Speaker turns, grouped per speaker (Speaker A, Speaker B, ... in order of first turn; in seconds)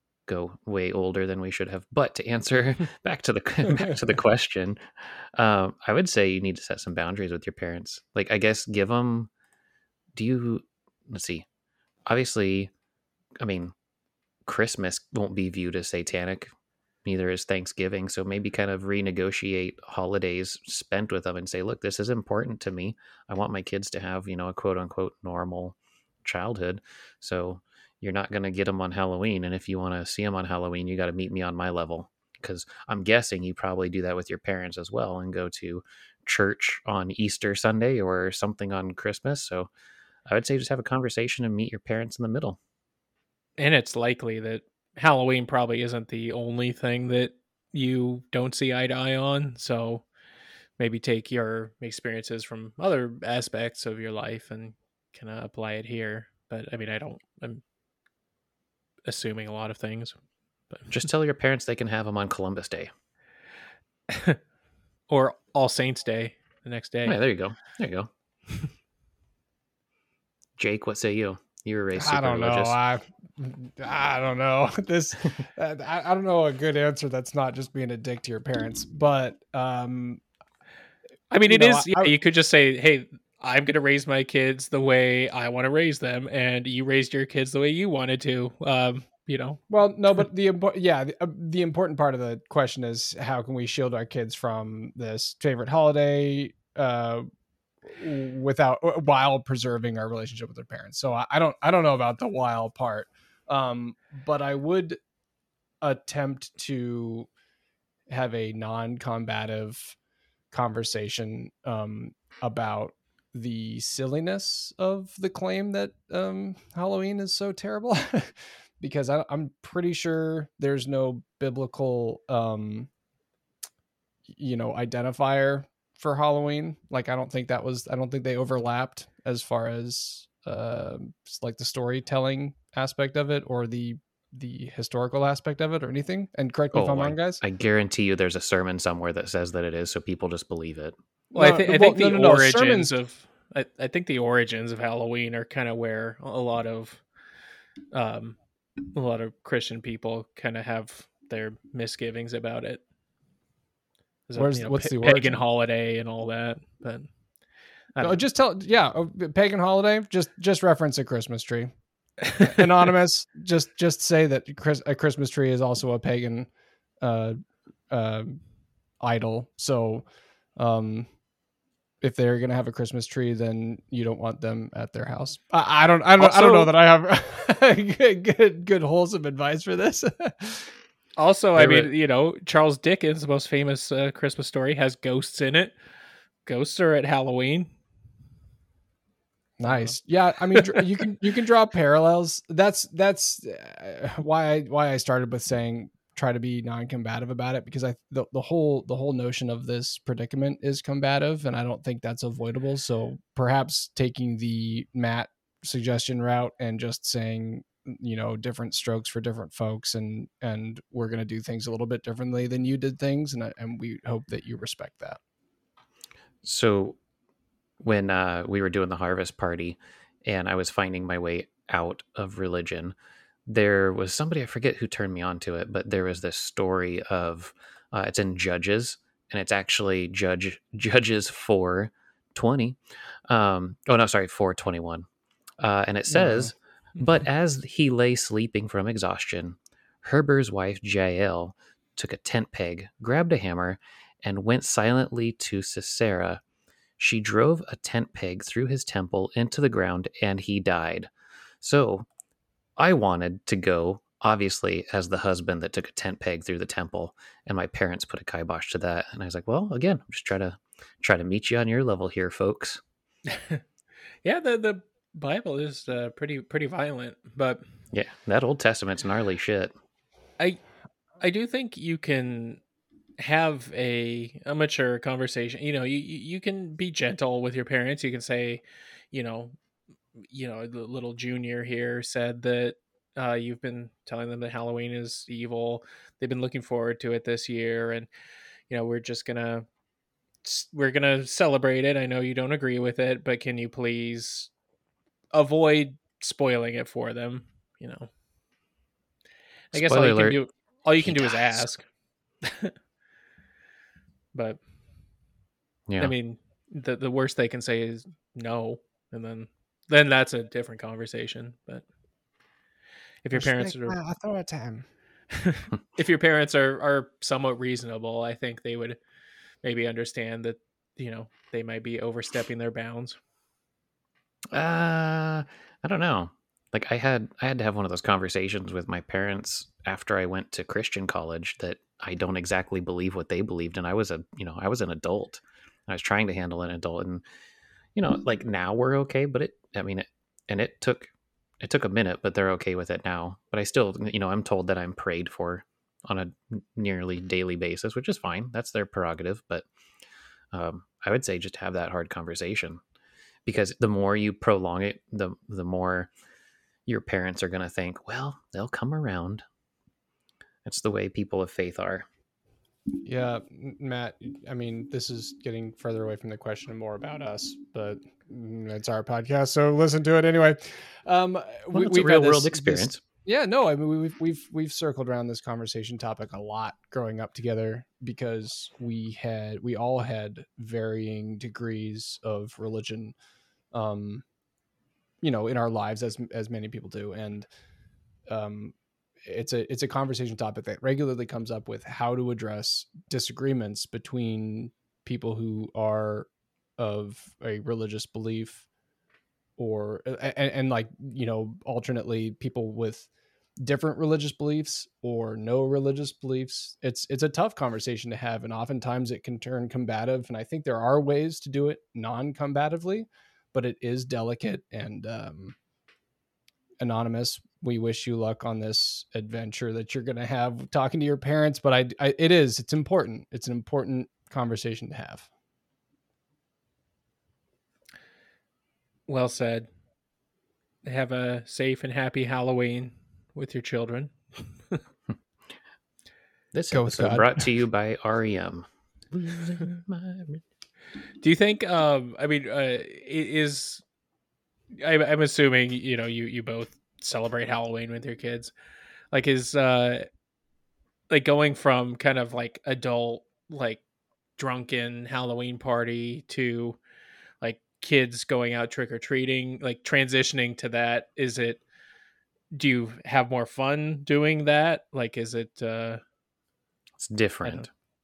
Speaker A: 0.3-4.8, 5.3-9.3, 10.1-11.4, 12.1-12.7, 13.4-13.7, 14.4-16.5, 17.0-39.7, 40.3-42.6, 60.9-62.9, 67.0-68.1, 70.6-72.8, 136.7-140.9, 181.6-181.9, 216.4-217.0, 217.8-222.9, 223.4-235.1, 235.6-246.4, 247.0-251.1, 251.6-252.1, 252.8-262.8, 267.9-269.7, 299.7-300.4, 301.0-301.7, 305.9-306.1, 324.5-337.2, 337.9-341.1, 341.6-349.6, 350.5-352.8, 353.4-356.1, 356.9-359.4, 360.6-362.1, 371.7-373.0, 436.5-440.4, 467.0-467.7
Speaker B: 3.6-4.0, 71.9-80.2, 81.5-82.1, 89.7-97.2, 97.9-105.0, 105.8-107.3, 108.1-110.0, 110.5-122.9, 124.3-137.4, 141.3-142.9, 154.3-155.4, 158.0-161.7, 162.4-166.5, 167.0-167.4, 167.9-168.4, 169.0-170.1, 170.6-171.1, 172.0-180.7, 189.6-215.2, 236.1-236.5, 313.3-314.9, 363.0-383.1, 383.7-384.2, 385.2-387.5, 388.3-388.7, 389.2-398.6, 399.6-403.1, 403.6-415.6, 416.8-425.3, 436.7-437.5
Speaker C: 43.6-50.0, 50.8-57.6, 59.0-60.1, 64.1-64.4, 65.1-67.2, 81.3-89.6, 141.3-147.0, 147.9-148.4, 148.9-152.8, 154.3-157.1, 157.9-158.2, 176.2-176.7, 181.2-185.7, 186.4-187.7, 190.5-190.9, 263.3-263.6, 264.2-267.6, 271.2-272.6, 273.2-279.5, 280.3-288.1, 288.7-289.6, 290.4-294.5, 295.3-298.1, 299.7-301.8, 302.4-302.7, 304.3-304.6, 306.0-311.8, 313.2-314.0, 315.3-319.0, 319.6-323.1, 429.1-429.7, 430.8-434.8, 441.2-443.8, 444.8-448.5, 449.1-450.1, 451.1-453.8, 454.4-456.8, 457.4-461.6, 462.5-466.0